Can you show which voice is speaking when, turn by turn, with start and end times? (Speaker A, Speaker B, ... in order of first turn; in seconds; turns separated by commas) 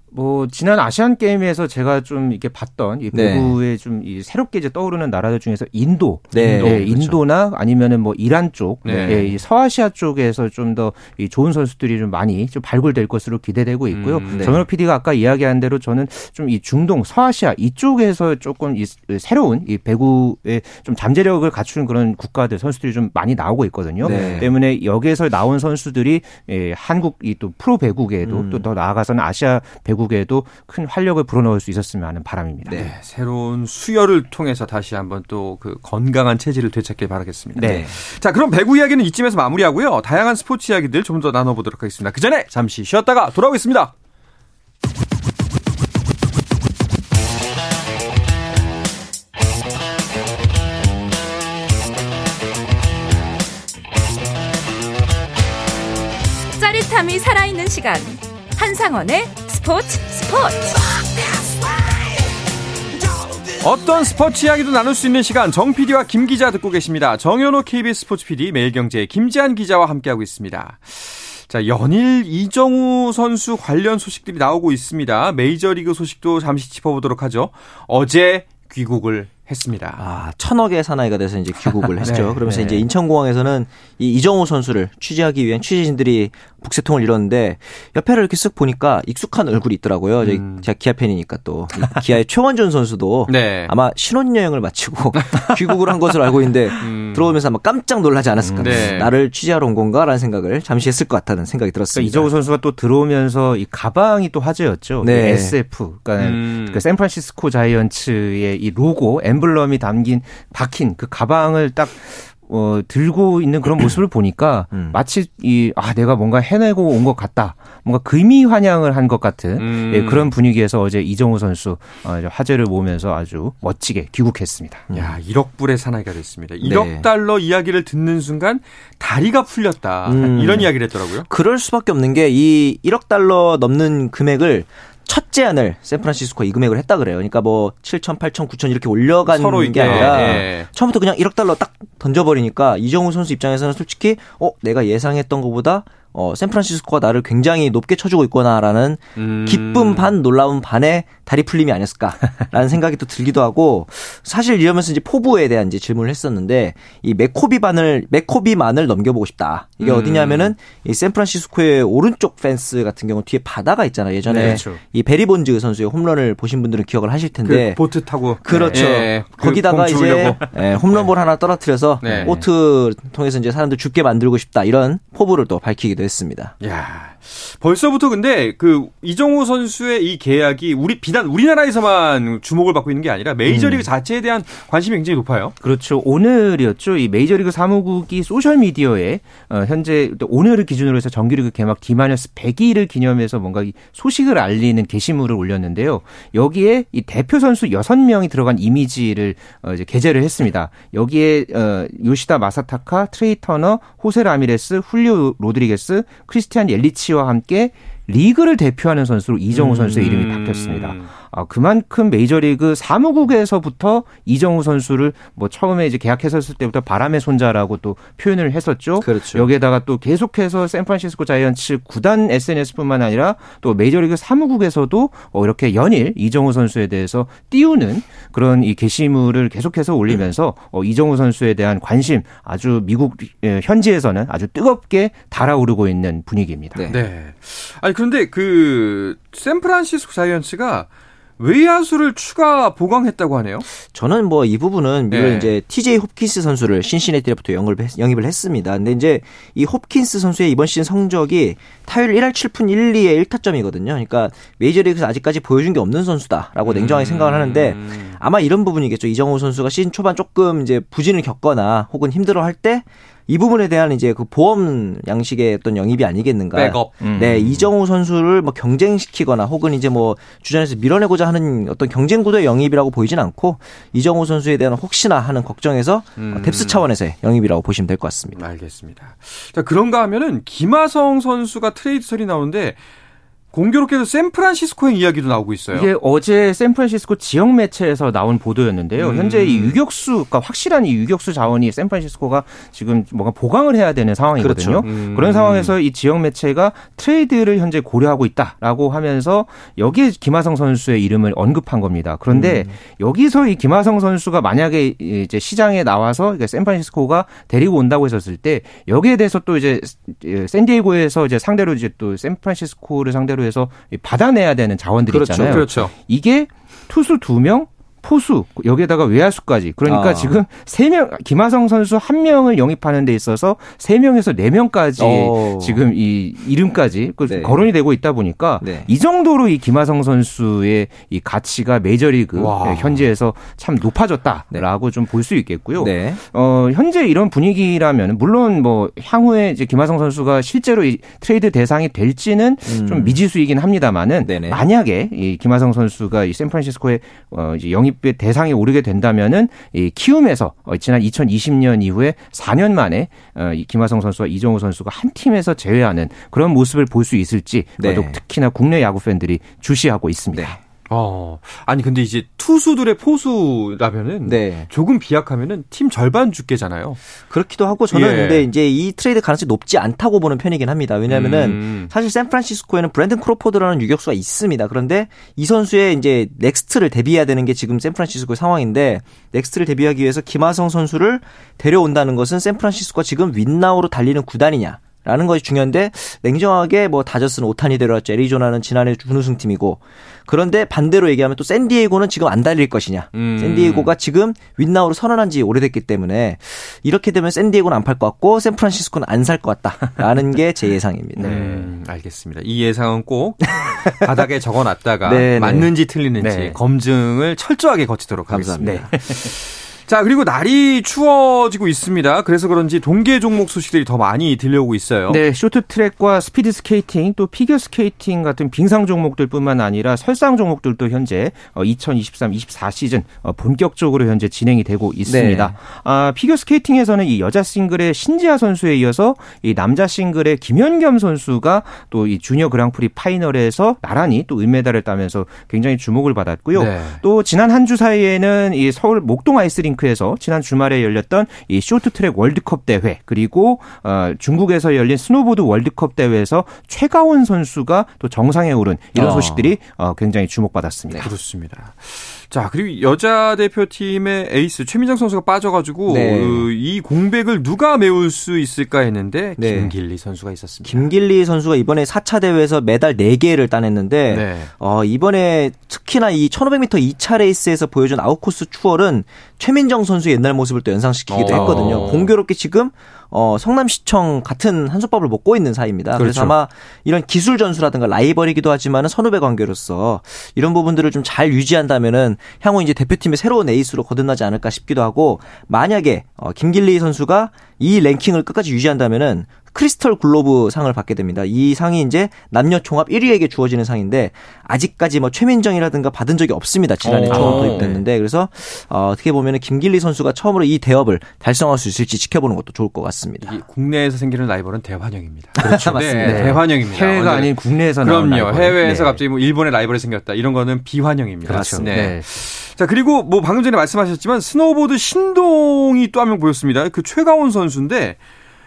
Speaker A: 0.1-32.8, Speaker B: 3.1-3.6, Speaker B: 6.3-7.2, Speaker C: 6.3-6.9, Speaker C: 8.8-9.3, Speaker B: 8.8-9.3, Speaker C: 13.9-14.6, Speaker B: 14.3-14.6, Speaker B: 24.0-24.5, Speaker C: 24.0-24.4, Speaker B: 28.2-28.7, Speaker C: 32.7-43.9, Speaker A: 37.5-37.9, Speaker B: 37.6-38.0, Speaker D: 56.6-60.7, Speaker C: 63.6-80.0, Speaker B: 80.0-102.3, Speaker C: 82.0-82.4, Speaker A: 82.0-82.8, Speaker C: 90.2-90.7, Speaker C: 93.3-93.7, Speaker C: 95.3-95.9, Speaker C: 96.7-97.3, Speaker A: 98.4-98.9, Speaker C: 98.6-99.1, Speaker A: 101.9-124.9, Speaker B: 105.0-105.6, Speaker C: 106.2-106.8, Speaker B: 114.7-115.0, Speaker C: 119.6-120.3, Speaker C: 124.9-131.3, Speaker B: 126.6-127.1, Speaker B: 130.1-130.7, Speaker B: 131.3-167.8, Speaker C: 139.2-140.7, Speaker A: 139.9-140.2, Speaker C: 149.2-150.1, Speaker C: 159.8-160.5, Speaker A: 164.3-164.8, Speaker C: 164.3-164.6, Speaker C: 167.4-171.1, Speaker B: 168.4-176.5, Speaker A: 168.5-168.9, Speaker C: 172.0-172.4, Speaker A: 172.0-172.4, Speaker C: 176.6-185.5, Speaker B: 183.5-183.8, Speaker A: 185.6-236.8, Speaker B: 209.6-210.0, Speaker C: 209.6-211.1, Speaker B: 219.0-219.5, Speaker C: 236.9-240.9, Speaker C: 241.4-243.7, Speaker B: 243.9-278.4, Speaker C: 245.1-245.5, Speaker C: 256.6-258.2, Speaker C: 266.5-267.6, Speaker A: 267.0-267.4, Speaker C: 276.2-276.9, Speaker C: 278.3-282.8, Speaker C: 283.5-285.9, Speaker A: 285.7-360.6, Speaker C: 289.0-289.8, Speaker B: 294.4-294.9, Speaker C: 294.8-295.7, Speaker B: 302.3-302.8, Speaker B: 315.1-315.9, Speaker C: 315.4-315.9, Speaker B: 319.9-320.4, Speaker B: 325.0-325.8, Speaker B: 327.3-327.7, Speaker B: 328.6-328.9, Speaker C: 332.4-333.1, Speaker B: 335.8-336.2, Speaker B: 342.7-343.2, Speaker B: 344.2-344.6, Speaker B: 357.8-358.2, Speaker C: 360.9-367.0, Speaker B: 364.2-364.7, Speaker B: 367.3-401.4, Speaker C: 367.9-368.5, Speaker C: 371.1-371.9, Speaker C: 393.1-393.9, Speaker A: 401.2-401.7, Speaker C: 401.2-415.2, Speaker B: 403.6-404.0, Speaker B: 405.0-405.7, Speaker A: 406.2-406.6, Speaker B: 408.3-408.9, Speaker A: 408.6-409.3, Speaker A: 415.1-451.1, Speaker B: 425.1-425.5, Speaker C: 436.5-437.0, Speaker B: 448.9-449.5, Speaker C: 451.0-460.9, Speaker B: 455.9-456.5, Speaker B: 459.4-459.7, Speaker B: 460.6-503.4, Speaker C: 464.1-464.5, Speaker C: 471.1-472.1, Speaker A: 471.2-471.9, Speaker C: 475.9-476.3, Speaker C: 496.8-497.8, Speaker A: 497.1-497.8, Speaker C: 503.2-518.0, Speaker B: 505.4-506.4, Speaker A: 506.0-509.0, Speaker A: 511.2-512.0, Speaker B: 511.3-511.7